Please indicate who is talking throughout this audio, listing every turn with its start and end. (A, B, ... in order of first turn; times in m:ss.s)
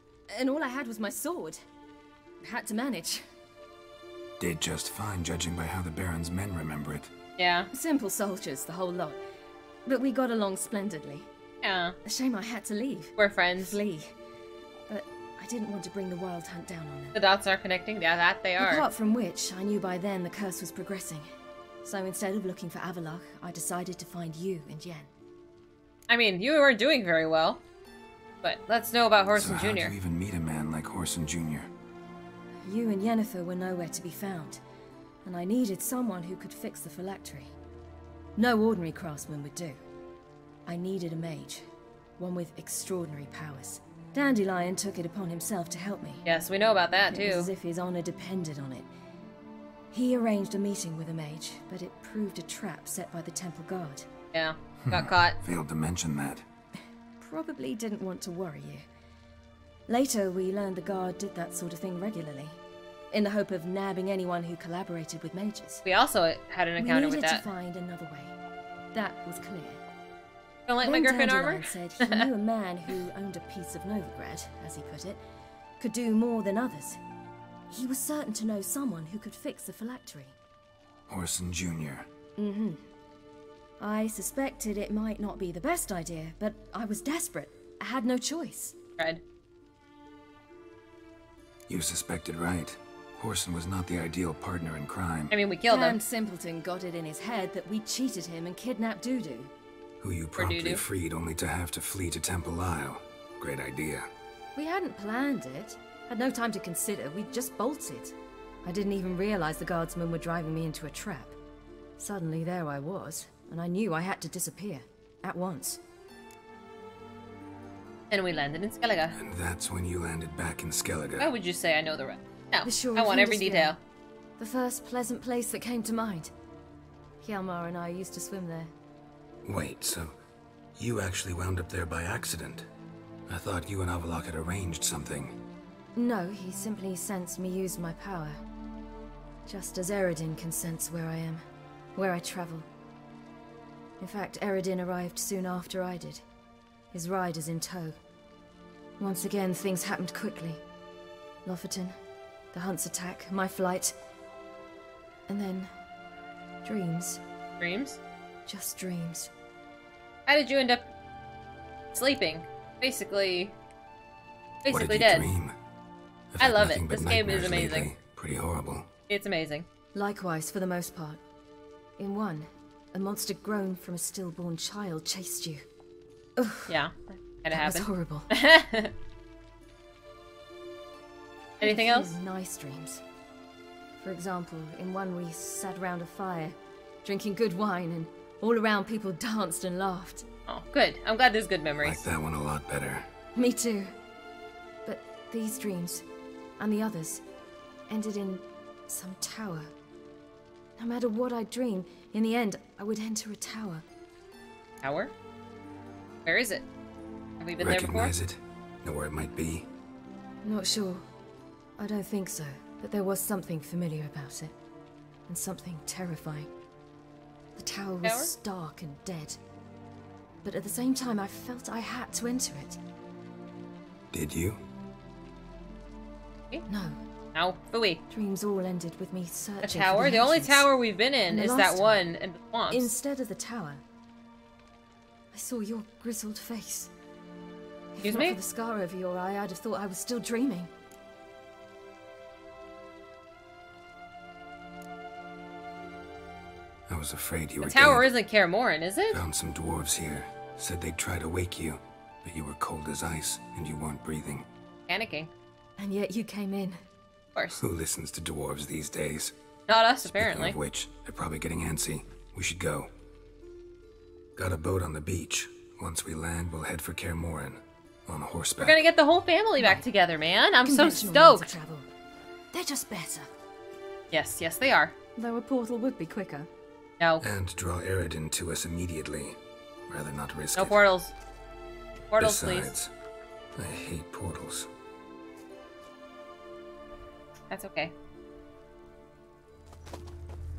0:00.3-0:01.6 A
0:02.4-0:03.2 A
0:04.4-0:07.1 B
0:07.4-0:07.7 C
0:07.7-0:09.2 A
0:09.9-0:11.3 A
0:11.6-0:12.0 C
0:12.1-0:14.1 A
0:13.2-0:13.8 C
0:14.9-0:17.2 A
0:17.2-0:18.9 C
0:18.6-0:21.3 A
0:21.8-0:25.1 A
0:26.1-0:27.6 C
0:28.4-0:29.9 C
0:29.4-0:31.7 B
0:32.6-0:34.6 A
0:35.2-0:37.5 A
0:38.4-0:39.8 A
0:40.7-0:41.7 A
0:42.2-0:46.2 A
0:46.2-0:47.5 C
0:47.1-0:48.9 A
0:49.9-0:54.1 A
0:54.3-0:55.4 C
0:54.9-0:56.4 B
0:57.2-0:58.8 A
0:59.9-1:02.6 A
1:03.1-1:05.8 A
1:05.8-1:07.4 C
1:06.8-1:08.3 A
1:08.9-1:09.8 A
1:10.7-1:12.2 C
1:10.8-1:15.2 A
1:15.8-1:17.0 A
1:17.7-1:20.3 A
1:21.1-1:22.1 B
1:22.4-1:22.8 A
1:23.8-1:28.8 A
1:31.7-1:35.3 B
1:35.3-1:36.0 C
1:35.7-1:39.5 A
1:40.0-1:44.1 B
1:40.4-1:40.8 C
1:44.6-1:51.4 A
1:52.0-1:55.8 A
1:58.1-1:59.2 C
1:59.2-2:01.3 B
2:01.2-2:03.8 C
2:02.6-2:03.8 A
2:04.4-2:06.3 A
2:07.2-2:08.7 A
2:09.4-2:10.2 B
2:10.8-2:12.7 B
2:13.3-2:15.4 B
2:16.0-2:18.4 A
2:19.5-2:21.4 A
2:22.0-2:22.7 A
2:24.0-2:26.2 A
2:26.9-2:28.0 A
2:29.0-2:30.6 A
2:31.4-2:32.0 A
2:32.5-2:34.0 A
2:35.3-2:35.7 A
2:36.6-2:37.2 A
2:37.6-2:38.0 C
2:38.5-2:39.3 A
2:40.3-2:40.9 C
2:41.9-2:43.6 C
2:44.6-2:45.3 C
2:44.7-2:45.6 B
2:46.4-2:48.9 B
2:46.4-2:47.9 C
2:49.1-2:49.7 C
2:50.0-2:51.2 A
2:52.0-2:55.6 A
2:56.4-2:56.7 A
2:56.7-2:58.9 C
2:57.5-2:58.3 A
3:01.6-3:02.2 C
3:01.6-3:03.0 A
3:04.0-3:10.2 A
3:10.5-3:12.0 C
3:11.8-3:13.1 B
3:13.4-3:13.9 A
3:14.9-3:16.0 A
3:16.6-3:17.2 A
3:17.9-3:19.7 A
3:20.8-3:23.8 A
3:24.8-3:25.1 C
3:26.2-3:26.6 C
3:27.4-3:28.1 C
3:27.6-3:29.7 B
3:30.4-3:31.1 A
3:31.8-3:34.5 A
3:35.3-3:36.5 A
3:37.6-3:39.4 A
3:38.0-3:38.3 C
3:40.4-3:42.8 A
3:44.1-3:44.6 B
3:46.7-3:47.0 A
3:47.4-3:48.0 C
3:48.1-3:50.7 A
3:49.6-3:52.9 C
3:51.3-3:52.0 A
3:52.7-3:53.8 A
3:55.3-3:56.9 A
3:58.0-4:00.7 A
3:58.0-3:58.4 C
4:06.9-4:08.1 B
4:07.6-4:09.2 C
4:09.1-4:14.5 B
4:14.9-4:15.3 C
4:15.8-4:16.8 A
4:17.4-4:17.6 C
4:17.5-4:19.4 B
4:19.7-4:20.6 C
4:20.1-4:22.9 B
4:24.4-4:28.8 B
4:28.6-4:31.5 C
4:29.6-4:29.8 A
4:30.7-4:31.9 A
4:32.5-4:33.3 A
4:34.1-4:35.0 C
4:35.2-4:36.5 A
4:37.0-4:37.2 C
4:37.2-4:40.8 B
4:40.6-4:41.1 C
4:42.1-4:42.7 C
4:42.2-4:42.9 B
4:43.6-4:44.7 B
4:47.5-4:47.9 C